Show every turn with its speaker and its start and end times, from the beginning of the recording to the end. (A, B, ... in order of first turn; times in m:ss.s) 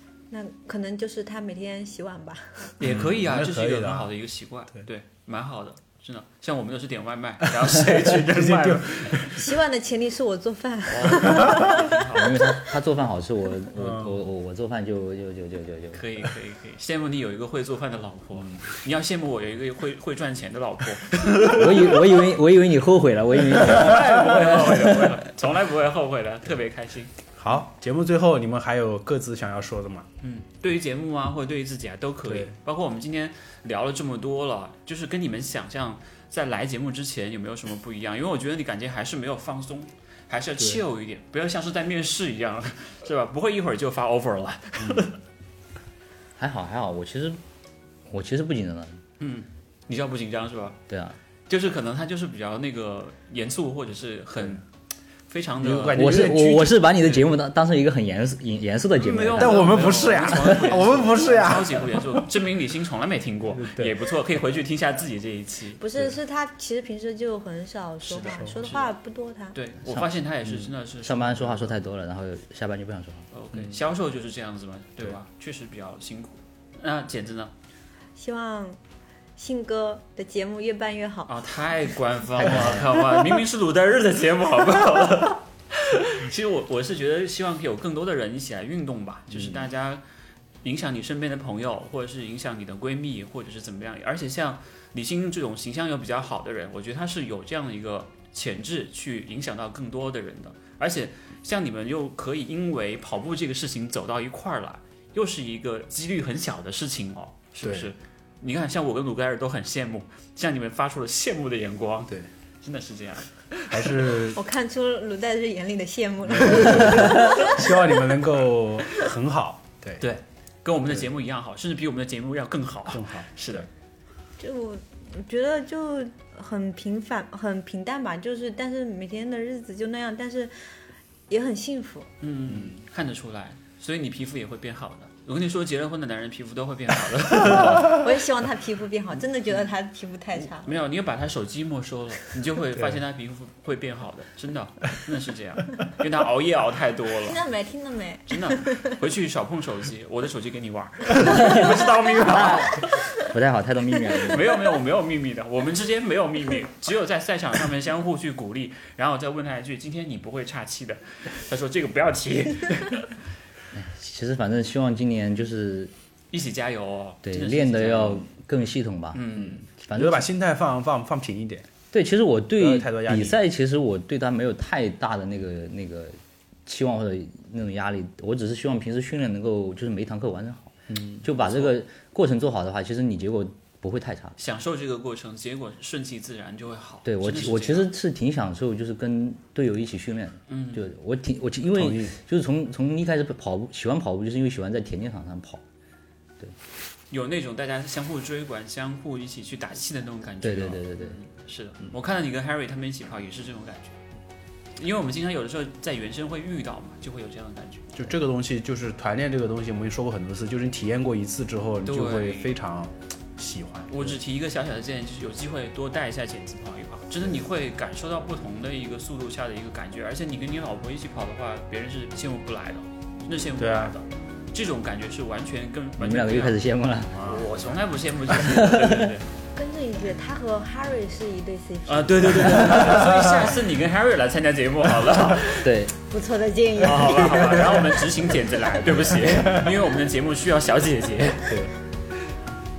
0:00.3-0:02.8 A
0:02.8-0:09.4 B
0:02.8-0:04.1 C
0:08.0-0:09.4 C
0:09.3-0:12.0 A
0:10.9-0:12.6 B
0:12.1-0:16.0 D
0:13.7-0:14.2 C
0:15.9-0:22.2 B
0:21.5-0:24.7 D
0:23.5-0:27.1 B
0:27.4-0:30.1 C
0:30.2-0:45.2 B
0:32.2-0:32.5 C
0:46.4-0:47.4 D
0:48.1-0:49.0 D
0:49.2-0:50.8 B
0:50.9-0:51.2 D
0:51.5-0:54.6 B
0:55.3-0:56.3 B
0:55.6-0:56.9 C
0:55.9-1:00.8 D
0:59.0-1:05.8 B
0:59.4-1:02.3 C
1:03.5-1:04.0 C
1:05.8-1:09.6 A
1:08.0-1:08.9 B
1:08.2-1:08.6 C
1:09.5-1:11.7 B
1:11.0-1:13.2 D
1:13.3-1:17.5 B
1:18.2-1:18.8 A
1:19.4-1:21.3 A
1:21.3-1:30.0 B
1:22.4-1:22.8 D
1:30.6-1:54.2 B
1:47.6-1:47.9 C
1:53.7-1:54.4 C
1:54.3-1:57.7 A
1:56.2-2:00.0 C
2:00.0-2:03.7 B
2:02.9-2:03.7 C
2:04.4-2:10.5 A
2:11.3-2:12.1 A
2:12.2-2:18.1 B
2:12.5-2:12.7 C
2:17.8-2:20.8 A
2:20.5-2:27.4 B
2:27.2-2:29.0 A
2:28.3-2:33.1 B
2:32.2-2:34.5 D
2:34.2-2:43.1 B
2:43.7-2:45.9 D
2:46.3-2:48.2 B
2:47.2-2:50.3 D
2:49.1-2:49.6 B
2:49.4-2:51.7 C
2:51.9-3:04.4 D
2:52.6-2:53.4 C
3:00.9-3:01.2 C
3:04.4-3:07.9 B
3:07.0-3:15.6 D
3:10.5-3:10.8 B
3:11.7-3:12.1 C
3:17.1-3:24.0 B
3:20.4-3:21.2 D
3:24.8-3:28.0 B
3:27.9-3:34.2 C
3:31.8-3:32.6 B
3:33.9-3:46.6 B
3:43.6-3:43.9 C
3:46.0-3:47.3 D
3:47.2-3:47.7 C
3:47.2-3:49.2 B
3:48.4-3:49.1 D
3:49.6-3:52.8 A
3:51.9-3:55.7 B
3:52.7-3:53.2 C
3:55.6-3:55.9 D
3:56.1-3:57.5 A
3:56.8-4:01.6 B
3:57.2-3:57.8 C
3:59.3-3:59.6 C